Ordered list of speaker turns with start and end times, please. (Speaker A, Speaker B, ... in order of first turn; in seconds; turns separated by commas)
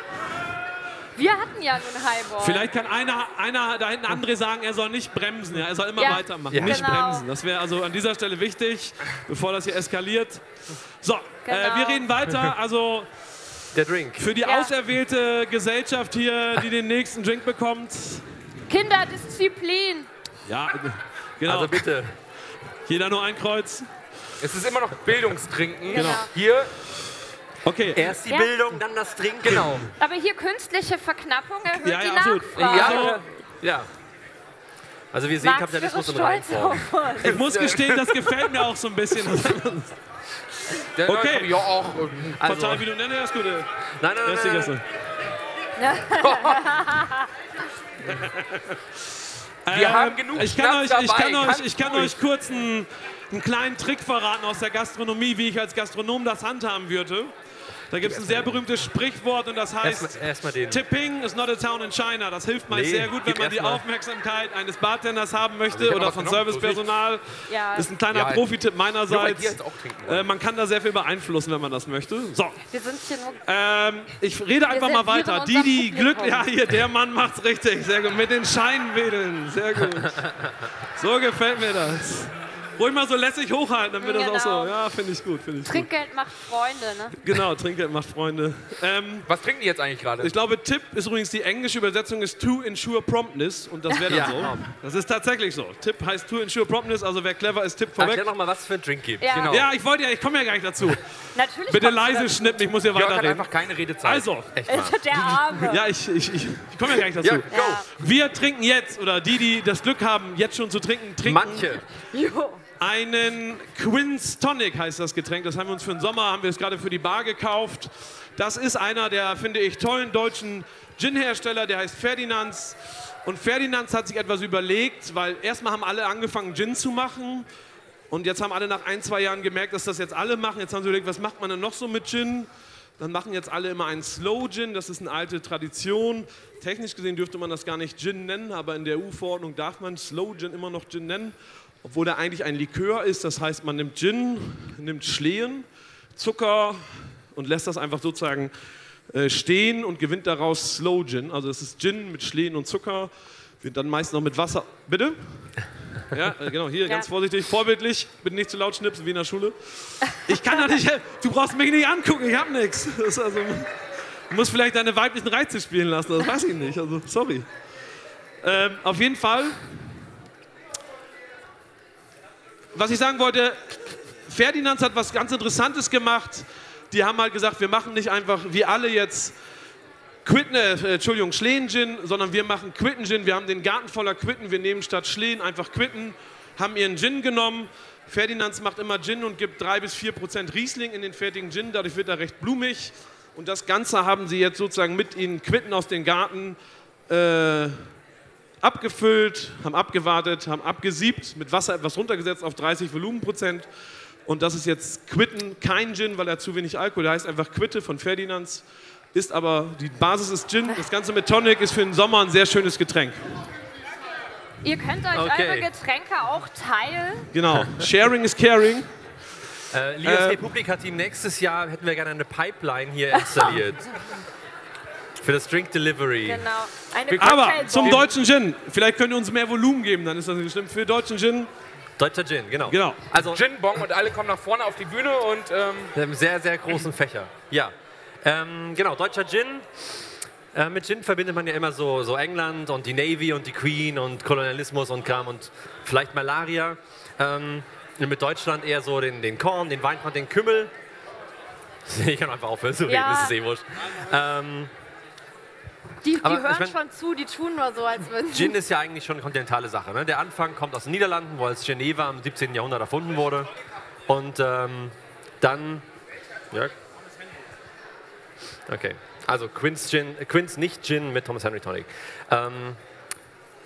Speaker A: 1.1-2.7, Speaker B: 2.4-13.1, Speaker A: 6.0-7.2, Speaker C: 6.5-6.9, Speaker A: 11.4-12.1, Speaker C: 13.7-14.3, Speaker B: 14.2-18.3, Speaker A: 14.4-14.7, Speaker A: 18.7-20.1, Speaker B: 20.4-21.9, Speaker C: 21.4-22.1, Speaker B: 22.9-23.9, Speaker D: 24.4-26.7, Speaker A: 25.9-26.3, Speaker B: 25.9-26.2, Speaker B: 27.6-28.2, Speaker C: 27.9-29.9, Speaker A: 28.2-28.5, Speaker A: 30.0-33.1, Speaker B: 31.7-33.4, Speaker D: 32.5-33.2, Speaker C: 33.6-33.9, Speaker C: 35.1-37.0, Speaker A: 35.4-37.4, Speaker B: 37.2-40.0, Speaker D: 37.2-38.5, Speaker B: 40.6-41.6, Speaker D: 41.0-42.8, Speaker C: 42.4-42.8, Speaker B: 42.4-43.7, Speaker C: 44.0-44.7, Speaker B: 44.2-44.9, Speaker A: 45.8-47.3, Speaker D: 46.2-46.6, Speaker B: 48.0-48.8, Speaker B: 49.6-57.3, Speaker D: 49.7-52.2, Speaker B: 57.9-72.7, Speaker C: 58.0-58.6, Speaker C: 59.8-60.8, Speaker C: 62.7-63.8, Speaker D: 65.7-66.8, Speaker A: 67.5-67.9, Speaker D: 68.1-68.5, Speaker D: 69.1-70.3, Speaker A: 72.7-73.4, Speaker B: 73.4-85.9, Speaker A: 74.7-76.5, Speaker A: 84.0-84.8, Speaker A: 85.7-87.2, Speaker B: 87.2-89.3, Speaker D: 89.2-90.3, Speaker B: 90.2-98.2, Speaker C: 94.0-94.6, Speaker C: 97.9-99.5, Speaker A: 99.2-99.6, Speaker D: 99.3-99.7, Speaker B: 99.5-101.2, Speaker A: 101.3-102.7, Speaker B: 101.7-104.5, Speaker D: 102.9-104.3, Speaker C: 104.5-105.4, Speaker A: 104.7-105.8, Speaker B: 105.1-111.8, Speaker C: 107.2-107.8, Speaker A: 107.5-107.8, Speaker C: 111.2-111.8, Speaker A: 112.0-112.6, Speaker B: 112.8-127.5, Speaker B: 128.1-148.5, Speaker B: 149.1-163.7, Speaker B: 164.3-167.5, Speaker B: 168.4-169.9, Speaker B: 172.7-179.3, Speaker B: 180.2-196.6, Speaker B: 197.1-197.9, Speaker B: 198.6-203.7, Speaker B: 204.2-213.5, Speaker A: 214.6-217.3, Speaker C: 215.1-215.7, Speaker B: 217.3-218.9, Speaker C: 219.7-224.1, Speaker B: 220.0-220.4, Speaker C: 225.2-226.5, Speaker A: 226.2-228.1, Speaker D: 227.1-228.1, Speaker B: 227.2-231.5, Speaker C: 232.0-233.4, Speaker B: 232.7-233.0, Speaker D: 233.2-235.9, Speaker C: 235.9-250.7, Speaker C: 251.8-254.7, Speaker A: 252.9-253.3, Speaker A: 256.0-258.5, Speaker C: 256.2-256.8, Speaker C: 258.3-263.5, Speaker C: 264.1-265.9, Speaker C: 268.6-272.8